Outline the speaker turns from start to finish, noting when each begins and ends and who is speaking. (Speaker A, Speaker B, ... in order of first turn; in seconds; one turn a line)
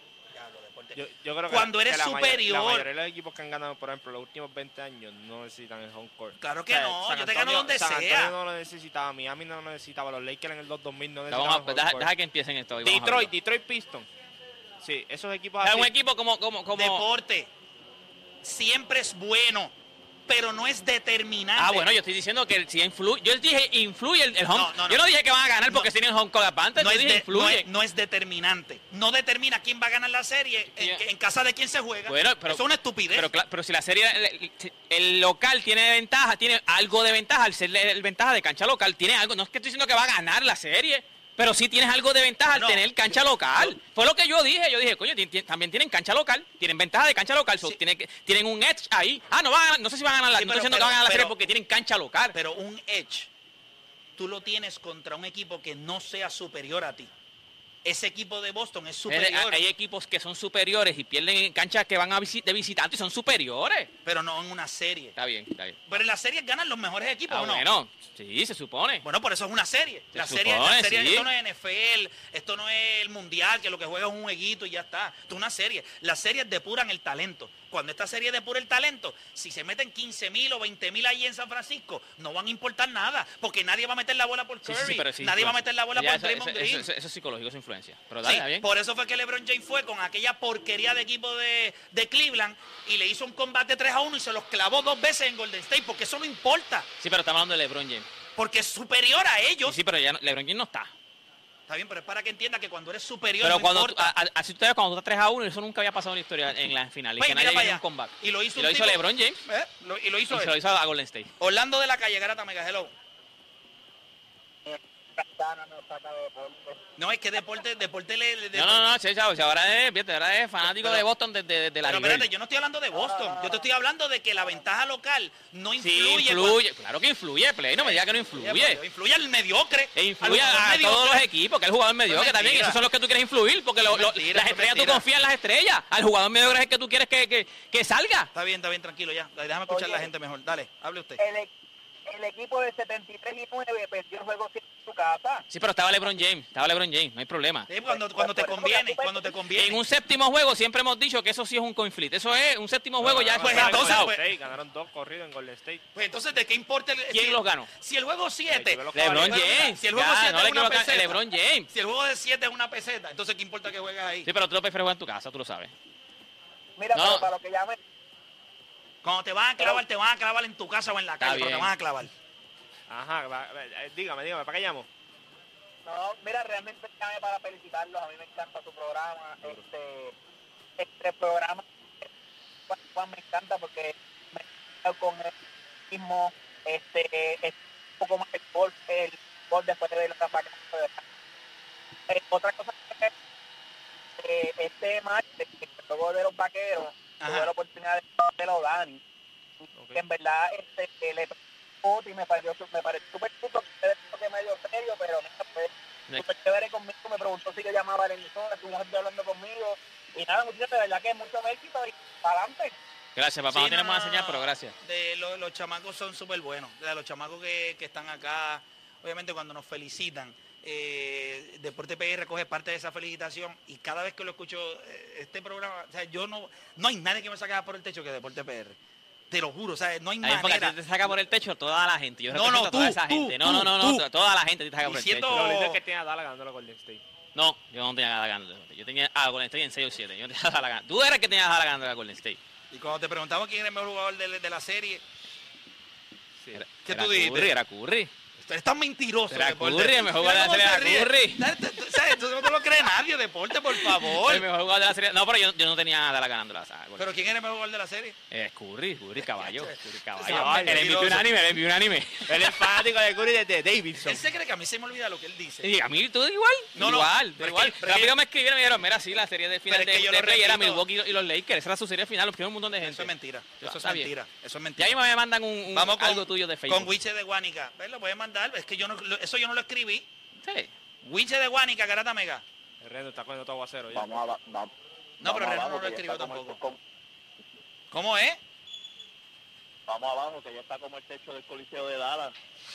Speaker A: 0.3-2.9
Speaker B: 0.9-12.1
Speaker A: 6.4-8.3
Speaker C: 11.3-13.3
Speaker B: 12.8-14.1
Speaker B: 14.8-15.9
Speaker C: 15.6-17.1
Speaker A: 16.7-17.5
Speaker A: 18.4-19.7
Speaker A: 20.3-21.9
Speaker C: 21.6-27.7
Speaker A: 24.5-25.0
Speaker A: 26.8-33.3
Speaker C: 30.7-31.0
Speaker C: 32.1-52.4
Speaker A: 42.5-43.8
Speaker A: 50.3-51.4
Speaker A: 52.3-53.3
Speaker A: 54.2-57.1
Speaker A: 57.9-59.6
Speaker C: 59.1-63.9
Speaker A: 64.0-65.2
Speaker C: 65.2-66.0
Speaker A: 65.9-67.7
Speaker C: 67.3-69.0
Speaker A: 69.0-86.9
Speaker C: 70.1-71.3
Speaker C: 84.7-88.7
Speaker A: 88.2-96.9
Speaker C: 97.0-98.1
Speaker A: 98.4-99.8
Speaker C: 99.7-100.9
Speaker A: 101.7-104.1
Speaker C: 103.4-109.4
Speaker A: 107.2-110.5
Speaker C: 110.3-111.3
Speaker A: 111.4-112.9
Speaker D: 114.7-116.8
Speaker A: 117.0-118.9
Speaker C: 118.5-122.3
Speaker A: 120.6-121.1
Speaker A: 121.8-126.6
Speaker D: 122.9-123.6
Speaker C: 125.8-128.8
Speaker A: 127.8-131.2
Speaker C: 129.9-138.3
Speaker A: 132.1-132.8
Speaker A: 133.9-135.1
Speaker A: 138.3-141.2
Speaker D: 139.7-140.1
Speaker D: 141.2-141.5
Speaker D: 142.1-145.4
Speaker C: 145.5-147.7
Speaker A: 147.7-149.8
Speaker D: 147.8-149.4
Speaker C: 149.5-154.2
Speaker B: 153.0-155.8
Speaker A: 153.4-154.2
Speaker A: 155.9-164.3
Speaker C: 157.1-157.7
Speaker B: 158.5-159.6
Speaker C: 158.9-161.7
Speaker C: 164.3-165.7
Speaker D: 166.8-167.8
Speaker C: 166.9-167.3
Speaker A: 169.0-172.1
Speaker C: 171.2-171.7
Speaker B: 172.9-174.9
Speaker D: 175.8-180.2
Speaker D: 180.8-181.7
Speaker D: 182.7-185.3
Speaker D: 185.9-191.0
Speaker D: 192.1-193.1
Speaker D: 194.2-199.0
Speaker A: 197.2-197.5
Speaker D: 199.6-212.8
Speaker B: 199.8-200.0
Speaker C: 213.2-214.8
Speaker A: 213.5-228.8
Speaker A: 229.3-230.8
Speaker C: 230.2-235.6
Speaker A: 232.3-234.1
Speaker A: 234.8-235.8
Speaker B: 235.3-237.0
Speaker C: 237.3-242.4
Speaker A: 242.7-245.0
Speaker C: 246.5-248.1
Speaker A: 246.8-247.5
Speaker A: 248.4-254.4
Speaker C: 249.3-251.5
Speaker C: 253.7-257.1
Speaker A: 257.0-258.2
Speaker C: 258.3-262.7
Speaker A: 259.4-261.3
Speaker B: 260.2-261.2
Speaker B: 262.3-264.2
Speaker A: 264.0-265.7
Speaker C: 265.6-274.1
Speaker A: 266.8-268.1
Speaker A: 269.7-270.8
Speaker A: 272.8-275.0
Speaker C: 274.8-276.9
Speaker A: 275.7-280.1
Speaker C: 280.4-280.7
Speaker A: 281.0-282.4
Speaker B: 282.8-284.2
Speaker E: 283.9-286.8
Speaker A: 285.2-286.6
Speaker A: 287.9-288.4
Speaker E: 289.9-292.4